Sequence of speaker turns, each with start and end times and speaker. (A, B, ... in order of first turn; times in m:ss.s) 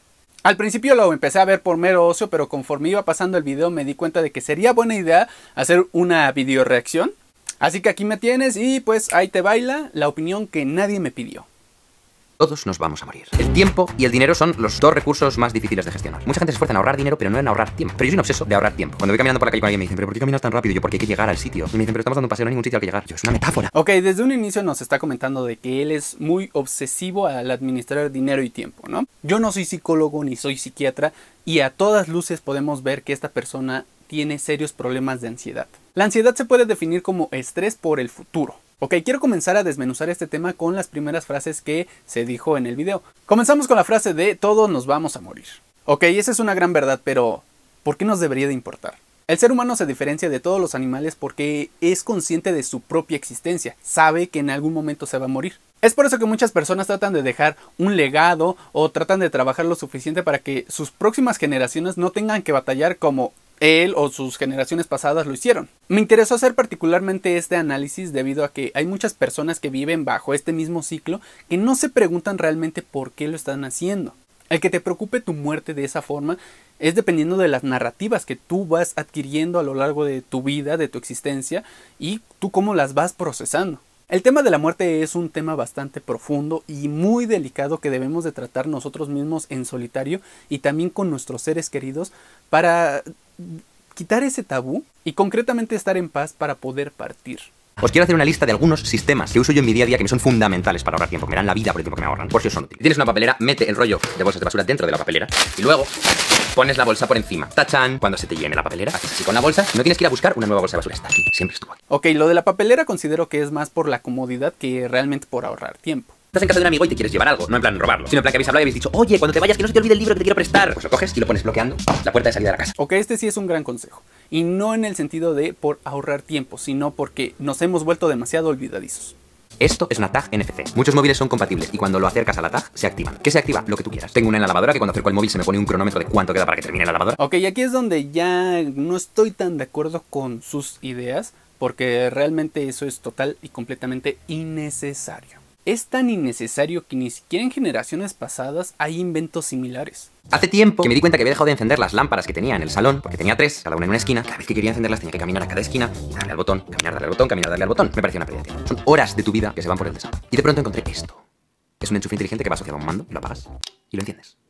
0:00.4-0:11.5 A
0:12.4-0:23.7 B
0:23.7-1:37.5 A
1:37.8-1:45.9 B
1:46.5-1:51.8 B
1:51.9-1:56.1 A
1:56.3-2:02.7 B
2:02.8-2:09.2 A
2:09.6-2:17.2 B
2:17.2-2:30.1 A
2:30.3-2:41.2 B
2:41.8-2:44.3 B